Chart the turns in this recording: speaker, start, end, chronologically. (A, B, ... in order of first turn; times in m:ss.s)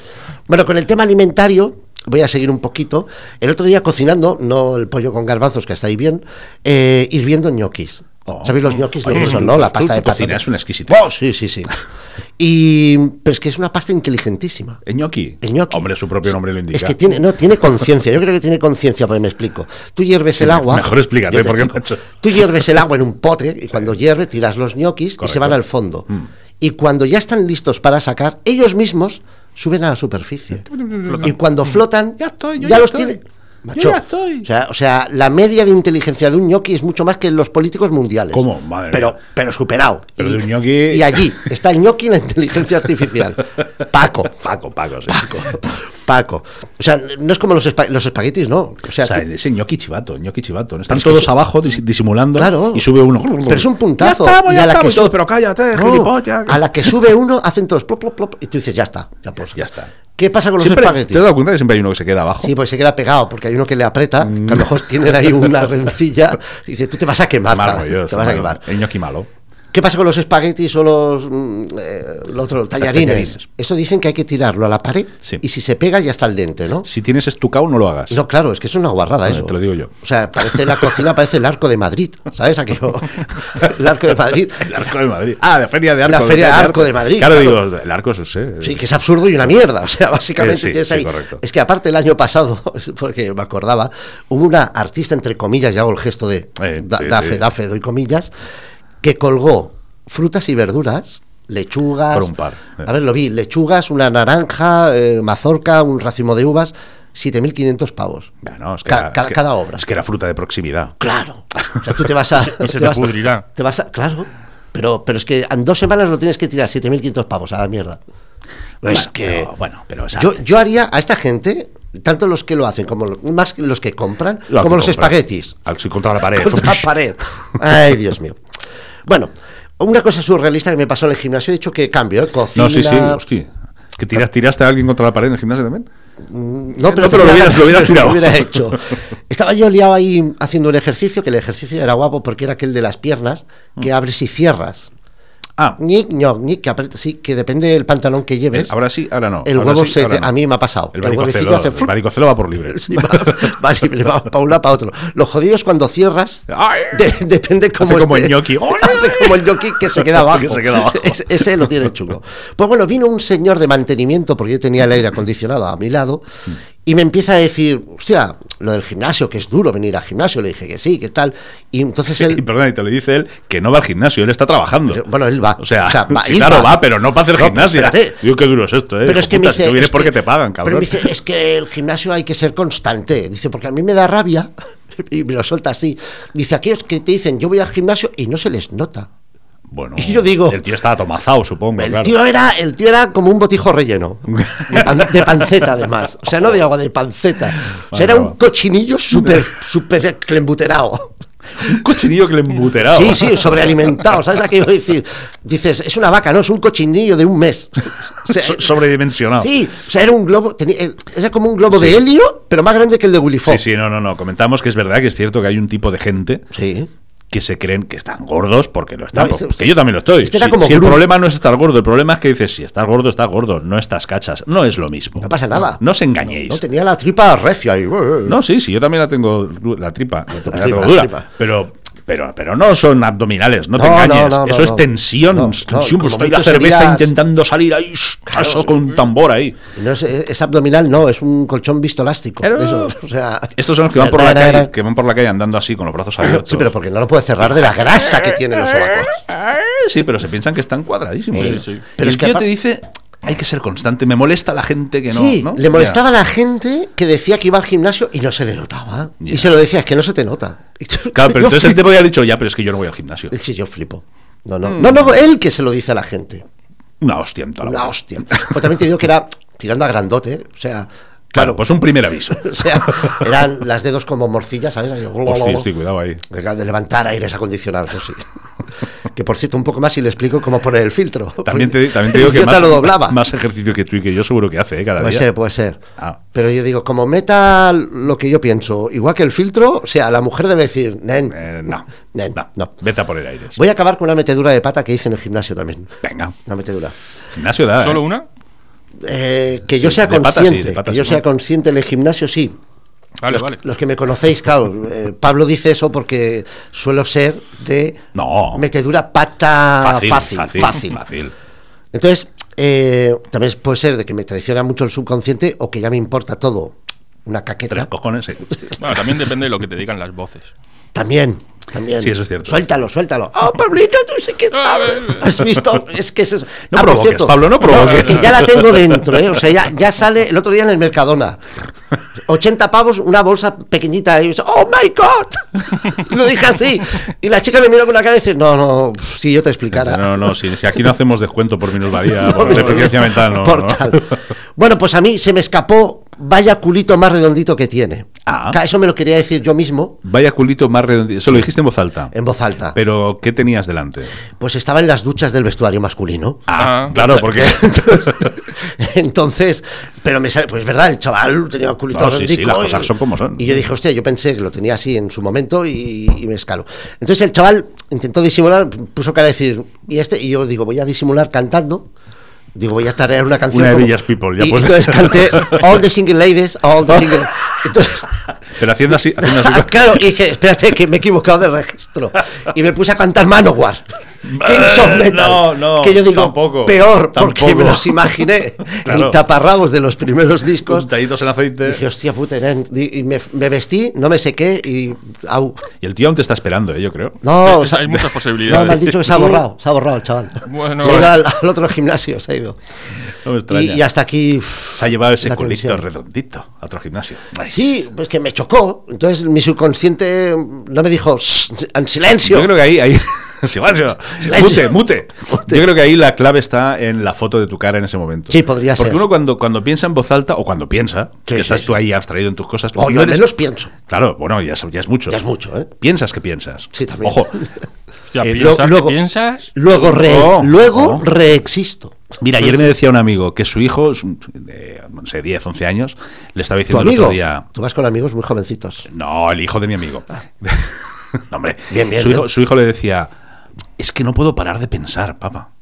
0:00.5-0:11.7 A
0:08.2-0:11.0 B
0:12.4-0:14.8 A
0:14.8-0:17.0 B
0:15.4-0:15.8 A
0:16.7-0:26.1 A
0:20.4-0:22.7 B
0:25.2-0:25.6 B
0:26.6-0:30.7 A
0:30.6-0:31.3 B
0:31.0-0:31.3 C
0:31.2-0:44.4 A
0:32.2-0:33.2 B
0:33.7-0:34.5 B
0:38.3-0:39.2 B
0:40.2-0:41.4 B
0:44.2-0:45.4 B
0:45.1-0:49.2 A
0:49.0-0:56.9 B
0:50.9-0:51.3 A
0:52.4-0:52.9 A
0:53.4-0:55.1 A
0:55.7-0:59.6 A
0:59.5-0:59.9 B
1:00.1-1:01.2 A
1:00.6-1:02.5 B
1:02.4-1:08.6 A
1:04.2-1:05.5 B
1:07.5-1:09.3 B
1:09.7-1:16.9 A
1:12.8-1:13.4 B
1:16.8-1:18.2 B
1:18.1-1:24.9 A
1:19.2-1:21.0 B
1:24.6-1:28.8 B
1:26.0-1:27.6 A
1:28.6-1:38.3 A
1:30.4-1:31.4 B
1:36.6-1:37.4 B
1:39.0-1:42.3 A
1:42.1-1:42.9 B
1:42.8-1:48.3 A
1:48.4-1:51.0 B
1:48.8-1:49.8 A
1:51.0-1:58.0 A
1:51.5-1:52.0 B
1:52.6-1:53.4 C
1:58.8-1:59.5 A
1:58.8-2:00.4 B
2:00.1-2:05.6 A
2:04.5-2:06.9 B
2:06.3-2:08.4 A
2:09.0-2:13.2 A
2:12.5-2:15.9 B
2:16.2-2:24.9 A
2:16.8-2:18.8 B
2:25.8-2:28.7 A
2:28.5-2:30.3 B
2:29.4-2:31.9 A
2:30.9-2:33.6 B
2:32.7-2:46.2 A
2:36.5-2:37.1 B
2:37.8-2:41.8 B
2:46.8-2:52.4 A
2:52.2-2:55.0 B
2:54.9-2:56.8 A
2:55.6-3:01.1 B
2:57.3-2:58.2 A
2:59.0-3:09.1 A
3:09.7-3:12.1 B
3:10.0-3:10.6 A
3:11.8-3:21.1 A
3:14.3-3:15.4 B
3:17.9-3:18.3 B
3:21.6-3:23.5 B
3:22.9-3:28.7 A
3:28.3-3:29.5 B
3:29.4-3:33.6 A
3:31.7-3:32.0 B
3:33.4-3:36.4 B
3:36.5-3:36.9 A
3:37.3-3:46.6 B
3:39.1-3:41.0 A
3:45.2-3:48.4 A
3:48.2-3:59.6 B
3:50.3-3:51.3 A
3:53.8-3:57.1 A
3:58.3-3:58.7 A
3:59.7-4:04.7 A
4:02.4-4:03.0 B
4:03.5-4:06.7 B
4:06.2-4:09.2 A
4:08.1-4:16.0 B
4:11.3-4:12.5 A
4:11.4-4:11.8 C
4:15.1-4:21.8 A
4:19.2-4:19.6 B
4:21.1-4:23.3 B
4:23.3-4:26.4 A
4:24.6-4:25.1 B
4:27.0-4:28.7 B
4:27.6-4:31.6 A
4:31.3-4:33.3 B
4:32.3-4:35.7 A
4:35.2-4:36.2 B
4:36.3-4:38.2 A
4:39.1-4:43.2 A
4:41.4-4:45.2 B
4:45.0-4:45.8 A
4:46.3-4:51.4 A
4:51.3-4:53.6 B
4:52.1-4:52.7 A
4:53.5-4:55.9 A
4:56.0-4:56.3 B
4:56.4-4:56.9 A
4:57.3-4:58.0 B
4:57.8-4:58.2 C
4:59.0-5:02.6 A
4:59.7-5:01.2 B
5:03.2-5:03.6 C
5:03.3-5:08.0 A
5:08.1-5:08.6 B
5:08.5-5:11.0 A
5:09.8-5:11.3 B
5:11.9-5:16.7 A
5:17.2-5:17.9 A
5:17.7-5:18.6 B
5:18.8-5:20.5 C
5:20.9-5:31.4 A
5:22.0-5:22.6 B
5:24.7-5:25.1 C
5:26.7-5:29.2 B
5:27.7-5:28.1 C
5:32.2-5:40.4 A
5:39.7-5:44.2 B
5:42.0-5:50.0 A
5:48.2-5:48.6 B
5:50.0-5:52.1 B
5:52.1-5:52.8 A
5:52.7-5:54.1 B
5:54.4-6:11.9 A
5:56.5-5:58.4 B
5:56.6-5:56.9 C
6:01.9-6:03.6 B
6:12.5-6:18.1 A
6:13.5-6:15.8 B
6:16.9-6:17.2 B
6:18.5-6:20.0 B
6:19.2-6:30.9 A
6:24.2-6:28.1 B
6:28.6-6:29.2 B
6:30.6-6:31.8 B
6:31.6-6:35.7 A
6:35.8-6:37.2 B
6:37.2-6:42.6 A
6:37.4-6:39.4 C
6:40.4-6:41.1 C
6:43.2-6:43.8 B
6:43.5-6:45.8 A
6:44.8-6:47.6 B
6:47.4-6:52.5 A
6:52.2-7:03.3 B
6:54.2-6:55.6 A
6:58.3-6:59.0 A
7:01.3-7:01.7 A
7:02.7-7:03.7 A
7:03.9-7:05.2 B
7:05.1-7:05.7 A
7:05.7-7:07.3 B
7:06.7-7:07.5 A
7:08.1-7:09.5 C
7:08.2-7:08.6 B
7:08.4-7:09.0 A
7:09.5-7:12.6 A
7:09.7-7:11.0 B
7:12.2-7:17.4 B
7:16.7-7:18.9 A
7:18.9-7:23.1 B
7:21.7-7:22.3 A
7:23.8-7:25.5 B